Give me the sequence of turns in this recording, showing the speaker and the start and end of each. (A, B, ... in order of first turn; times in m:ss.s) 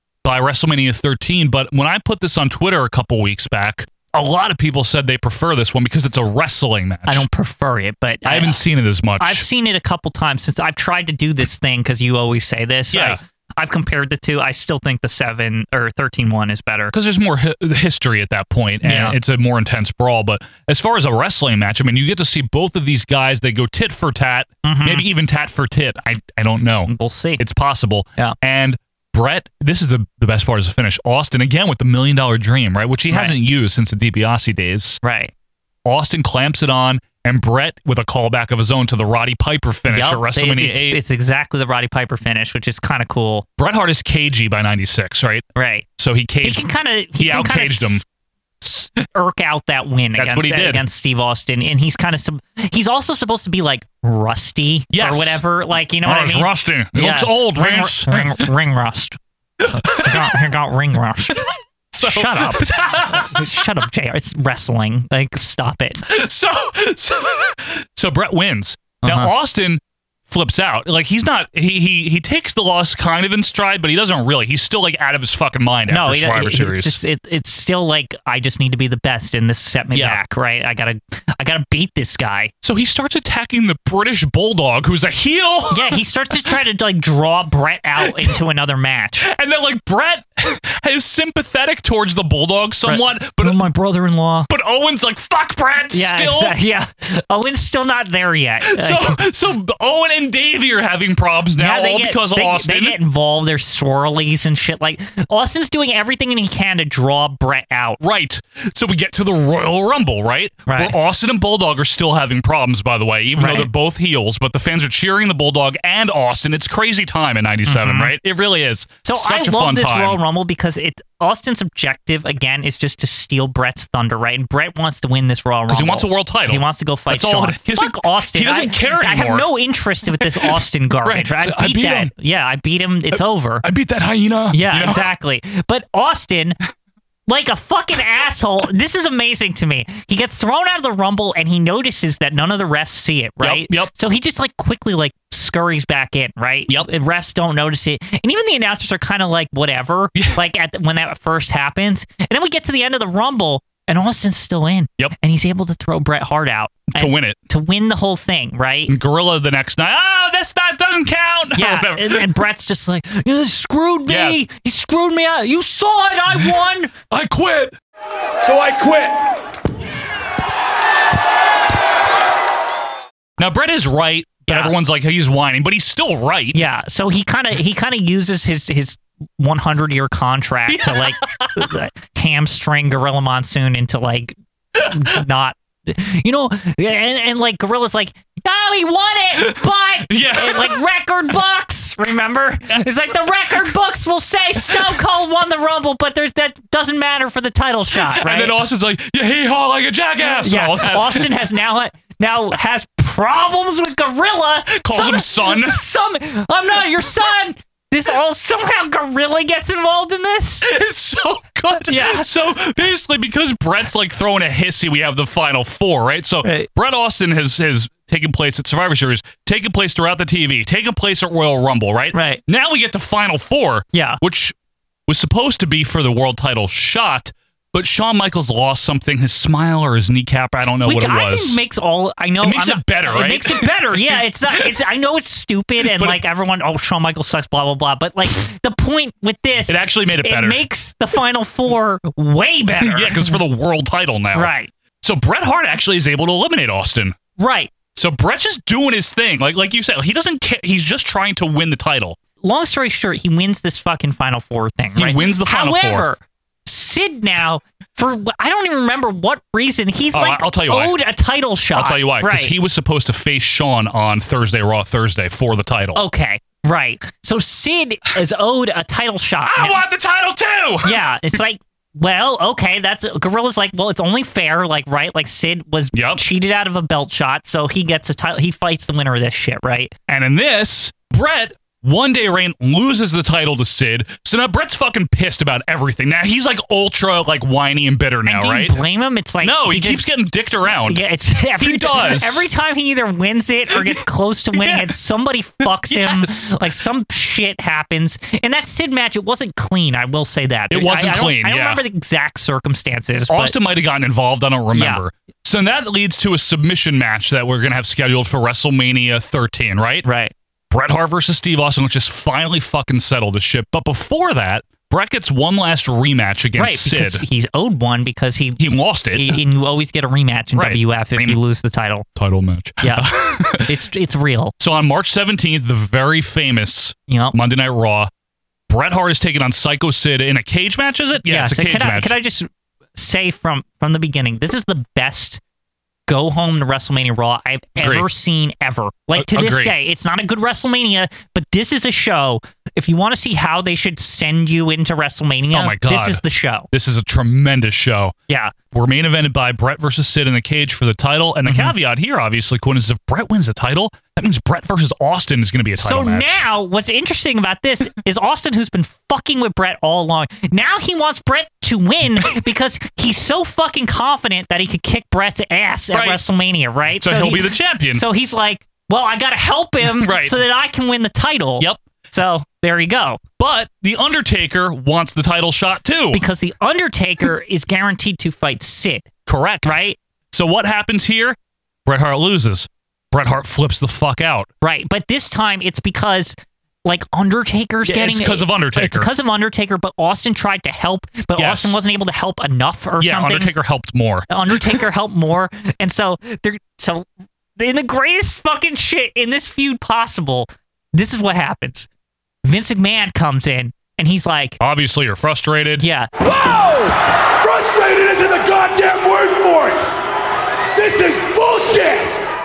0:00.2-0:07.2 A
0:07.1-0:08.6 B
0:08.2-0:09.4 A
0:09.2-0:16.9 B
0:12.9-0:13.2 A
0:16.9-0:35.0 A
0:18.8-0:19.2 B
0:24.6-0:25.0 B
0:26.9-0:27.4 B
0:35.0-0:35.3 B
0:35.8-0:41.0 A
0:39.9-0:43.4 B
0:43.6-0:45.4 A
0:45.6-0:45.8 B
0:46.0-0:46.6 A
0:46.4-0:48.0 B
0:47.2-0:48.0 A
0:48.6-0:59.2 B
0:50.2-0:50.8 A
0:54.9-0:55.4 A
0:56.0-0:58.5 A
0:59.7-1:00.4 A
0:59.7-1:01.4 B
1:01.9-1:03.4 A
1:02.0-1:06.0 B
1:06.1-1:17.0 A
1:09.0-1:09.3 B
1:15.9-1:22.5 B
1:19.9-1:20.2 A
1:22.6-1:26.5 A
1:25.7-1:29.3 B
1:28.0-1:28.4 A
1:29.2-1:33.6 A
1:32.9-1:34.5 B
1:34.5-1:36.6 A
1:35.9-1:39.2 B
1:38.6-1:43.0 A
1:41.6-1:48.0 B
1:48.0-2:00.2 A
1:50.7-1:50.9 B
1:53.4-1:53.7 B
1:57.7-1:58.1 B
1:59.0-2:13.6 B
2:05.7-2:09.5 A
2:10.2-2:12.1 A
2:13.1-2:15.0 A
2:14.5-2:16.6 B
2:17.3-2:38.9 B
2:23.4-2:23.9 A
2:36.9-2:37.4 A
2:38.9-2:42.3 A
2:41.5-2:46.9 B
2:44.1-2:44.4 A
2:47.1-2:47.7 A
2:53.4-2:56.6 A
2:54.5-2:54.7 B
2:56.5-3:18.6 B
3:00.7-3:01.6 A
3:04.8-3:05.2 A
3:09.4-3:10.8 A
3:12.7-3:13.7 A
3:14.7-3:14.9 A
3:17.9-3:21.3 A
3:20.4-3:30.7 B
3:24.8-3:25.8 A
3:30.6-3:44.5 A
3:31.9-3:32.3 B
3:42.1-3:42.4 B
3:43.9-3:44.2 B
3:45.1-3:51.6 A
3:50.8-4:03.4 B
3:52.4-3:54.7 A
3:55.8-3:56.2 A
3:59.7-4:00.6 A
4:02.8-4:07.2 A
4:04.3-4:04.7 B
4:07.4-4:07.7 B
4:07.9-4:12.2 A
4:12.4-4:22.5 B
4:15.0-4:16.1 A
4:20.1-4:20.9 A
4:21.7-4:26.0 A
4:25.9-4:29.8 B
4:29.5-4:31.0 A
4:30.8-4:39.9 B
4:35.9-4:36.2 A
4:40.1-4:48.8 A
4:48.2-4:50.0 B
4:49.4-4:51.0 A
4:50.8-5:03.6 B
4:51.5-4:52.4 A
4:53.7-4:54.0 A
4:54.5-4:54.9 A
4:55.6-4:56.6 A
5:00.7-5:01.8 A
5:03.3-5:10.1 A
5:04.7-5:05.0 B
5:10.0-5:10.3 B
5:10.7-5:17.2 A
5:16.6-5:18.6 B
5:18.6-5:19.4 A
5:19.1-5:22.0 B
5:20.5-5:21.4 A
5:22.2-5:23.7 A
5:22.8-5:23.1 B
5:23.6-5:24.5 B
5:24.6-5:28.1 A
5:27.1-5:27.3 B
5:28.7-5:32.1 A
5:31.2-5:35.4 B
5:36.1-5:46.7 B
5:37.8-5:38.1 A
5:39.2-5:39.7 A
5:45.5-5:48.1 A
5:48.3-5:48.5 B
5:48.7-5:56.4 A
5:51.4-5:51.8 B
5:55.8-6:13.2 B
6:05.9-6:06.2 A
6:07.0-6:08.0 A
6:09.8-6:10.4 A
6:13.4-6:16.2 A
6:16.1-6:19.1 B
6:19.3-6:19.8 A
6:19.6-6:20.0 B
6:20.3-6:24.5 A
6:24.6-6:33.5 B
6:27.8-6:29.1 A
6:31.4-6:31.8 A
6:33.0-6:34.8 A
6:34.3-6:41.9 B
6:42.4-6:44.6 B
6:44.6-6:45.8 A
6:45.8-6:46.1 B
6:47.4-6:49.7 C
6:50.8-6:52.1 C